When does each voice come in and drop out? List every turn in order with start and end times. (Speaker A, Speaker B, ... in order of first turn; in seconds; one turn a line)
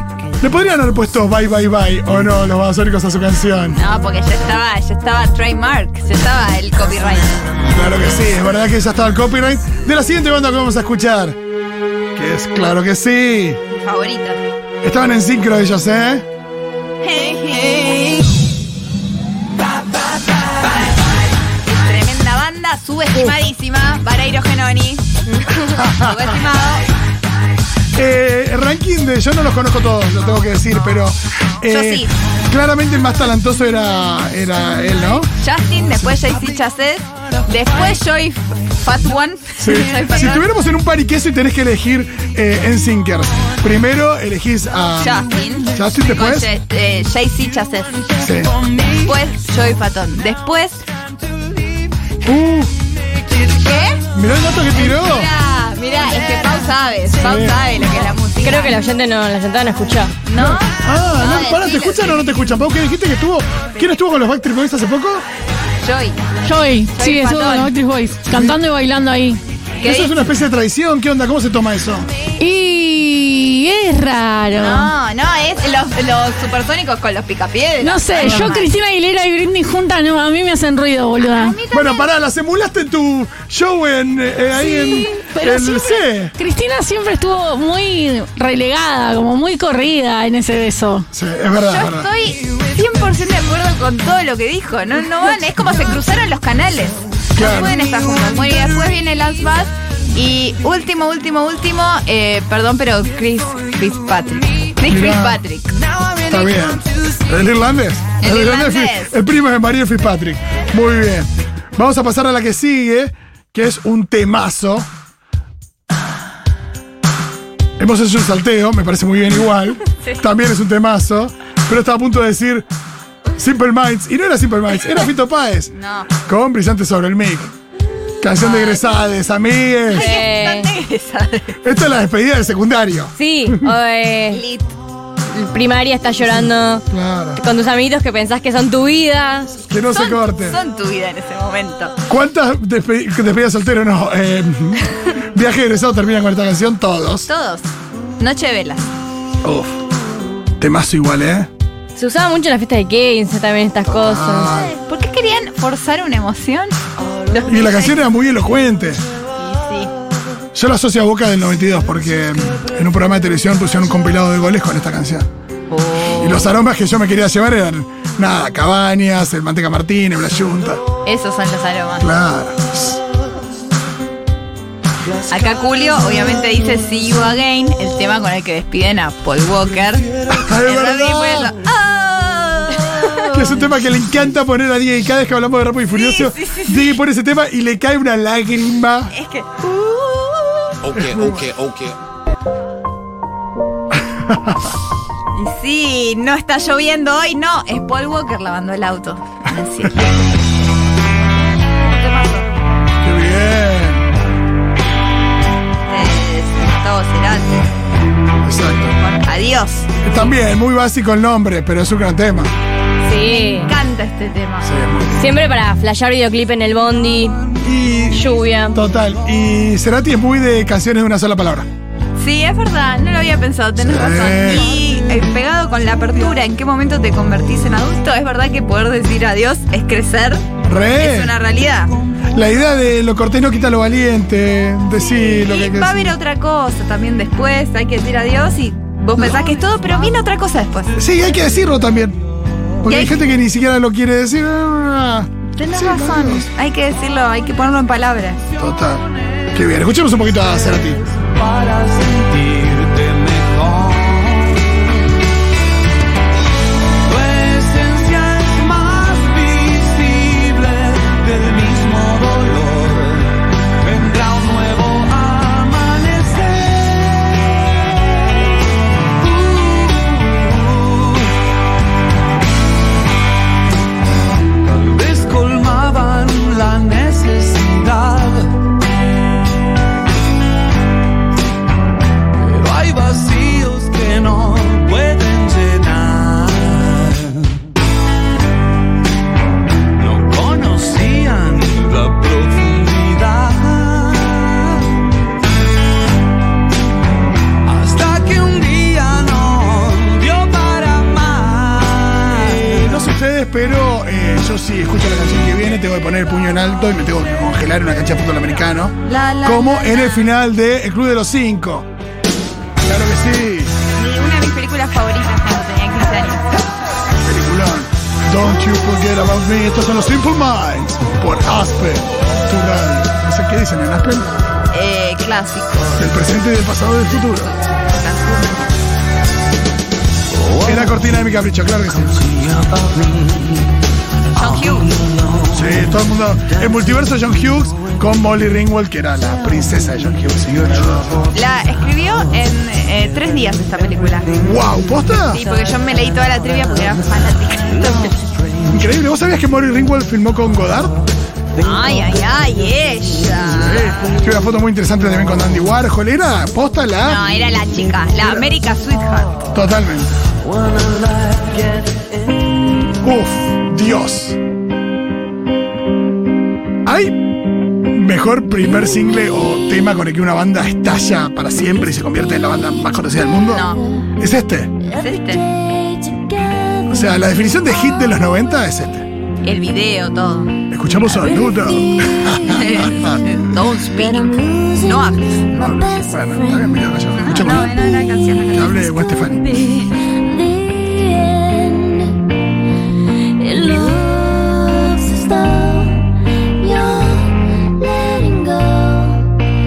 Speaker A: 0.4-3.8
Speaker B: 3.8-7.5
Speaker A: 7.7-11.4
Speaker A: 12.2-13.6
Speaker B: 13.7-14.4
Speaker A: 14.8-16.2
Speaker B: 17.0-18.3
Speaker B: 21.6-26.9
Speaker A: 25.6-26.3
Speaker A: 27.9-35.3
Speaker B: 31.7-32.1
Speaker B: 35.4-40.5
Speaker A: 39.6-46.5
Speaker B: 45.0-48.1
Speaker A: 48.2-48.5
Speaker B: 48.9-50.9
Speaker A: 52.2-52.7
Speaker B: 53.5-54.0
Speaker A: 54.1-55.3
Speaker B: 54.7-58.8
Speaker A: 57.2-57.6
Speaker C: 58.4-60.1
Speaker B: 60.2-62.3
Speaker A: 60.4-65.2
Speaker B: 65.8-66.2
Speaker D: 66.4-69.4
Speaker B: 66.9-67.7
Speaker A: 68.3-68.6
Speaker B: 69.8-70.1
Speaker A: 69.8-72.1
Speaker D: 72.4-74.9
Speaker B: 74.6-78.7
Speaker D: 77.8-81.6
Speaker B: 81.3-82.1
Speaker A: 81.7-86.3
Speaker D: 84.6-91.0
Speaker A: 91.1-92.1
Speaker B: 91.5-105.8
Speaker A: 97.4-97.8
Speaker A: 104.9-105.4
Speaker A: 106.2-114.9
Speaker B: 108.2-109.1
Speaker A: 117.8-122.7
Speaker A: 123.4-127.5
Speaker B: 125.7-126.1
Speaker A: 128.2-130.1
Speaker B: 128.4-128.9
Speaker C: 129.9-130.7
Speaker B: 129.9-131.6
Speaker A: 131.6-133.5
Speaker C: 133.2-134.4
Speaker B: 134.3-134.8
Speaker C: 135.3-139.6
Speaker A: 136.9-137.4
Speaker A: 139.7-140.6
Speaker B: 139.9-141.9
Speaker A: 142.1-147.3
Speaker B: 147.3-147.7
Speaker B: 148.2-148.9
Speaker A: 149.4-149.7
Speaker A: 150.6-151.5
Speaker C: 152.0-154.6
Speaker A: 153.8-154.8
Speaker B: 154.5-156.8
Speaker B: 157.3-158.0
Speaker A: 157.5-159.0
Speaker B: 159.4-159.9
Speaker A: 160.5-165.3
Speaker B: 165.7-166.6
Speaker A: 166.1-170.8
Speaker B: 171.0-172.1
Speaker A: 172.0-173.0
Speaker B: 175.3-183.6
Speaker A: 180.3-181.6
Speaker A: 183.2-189.1
Speaker B: 185.9-187.0
Speaker B: 189.1-190.8
Speaker E: 190.8-192.0
Speaker A: 190.9-191.4
Speaker A: 194.2-194.5
Speaker B: 195.3-200.1
Speaker B: 201.7-202.5
Speaker A: 203.0-204.1
Speaker B: 205.9-207.7
Speaker A: 208.4-209.0
Speaker B: 209.0-210.0
Speaker A: 210.0-212.5
Speaker C: 213.1-213.7
Speaker B: 213.1-214.7
Speaker A: 214.6-215.3
Speaker C: 215.2-217.4
Speaker A: 217.6-221.7
Speaker C: 218.1-218.8
Speaker B: 222.2-231.9
Speaker A: 223.8-224.7
Speaker A: 230.6-231.3
Speaker A: 232.3-236.2
Speaker B: 235.2-240.9
Speaker A: 239.2-239.4
Speaker A: 241.0-242.2
Speaker A: 242.8-246.5
Speaker B: 242.9-243.2
Speaker B: 245.5-248.4
Speaker A: 248.6-251.2
Speaker F: 251.3-254.9
Speaker F: 257.0-267.5
Speaker F: 269.2-271.3
Speaker F: 274.7-278.5
Speaker F: 282.4-287.6
Speaker F: 290.0-294.9
Speaker F: 297.6-302.8
Speaker A: 302.4-311.9
Speaker B: 309.1-310.3
Speaker A: 312.8-313.7
Speaker B: 313.9-316.6
Speaker A: 317.2-324.4
Speaker B: 324.7-326.2
Speaker A: 326.0-327.6
Speaker B: 327.1-328.7
Speaker A: 330.6-332.4
Speaker E: 332.6-333.4
Speaker B: 334.3-335.0
Speaker A: 335.5-341.3
Speaker B: 341.3-344.4
Speaker A: 344.4-345.4
Speaker B: 345.3-348.2
Speaker A: 348.7-350.9
Speaker B: 351.6-354.1
Speaker A: 353.5-357.3
Speaker B: 357.0-359.4
Speaker A: 359.5-360.2
Speaker E: 360.7-362.0
Speaker A: 363.0-364.4
Speaker A: 366.9-367.3
Speaker A: 367.8-374.7
Speaker B: 373.5-373.8
Speaker B: 374.9-375.4
Speaker C: 376.1-376.8
Speaker A: 376.9-379.1
Speaker B: 379.4-380.6
Speaker A: 380.7-383.4
Speaker B: 382.4-385.8
Speaker C: 384.2-385.1
Speaker A: 385.6-387.8
Speaker B: 387.1-389.0
Speaker A: 388.5-389.8
Speaker C: 389.8-392.2
Speaker C: 393.4-399.3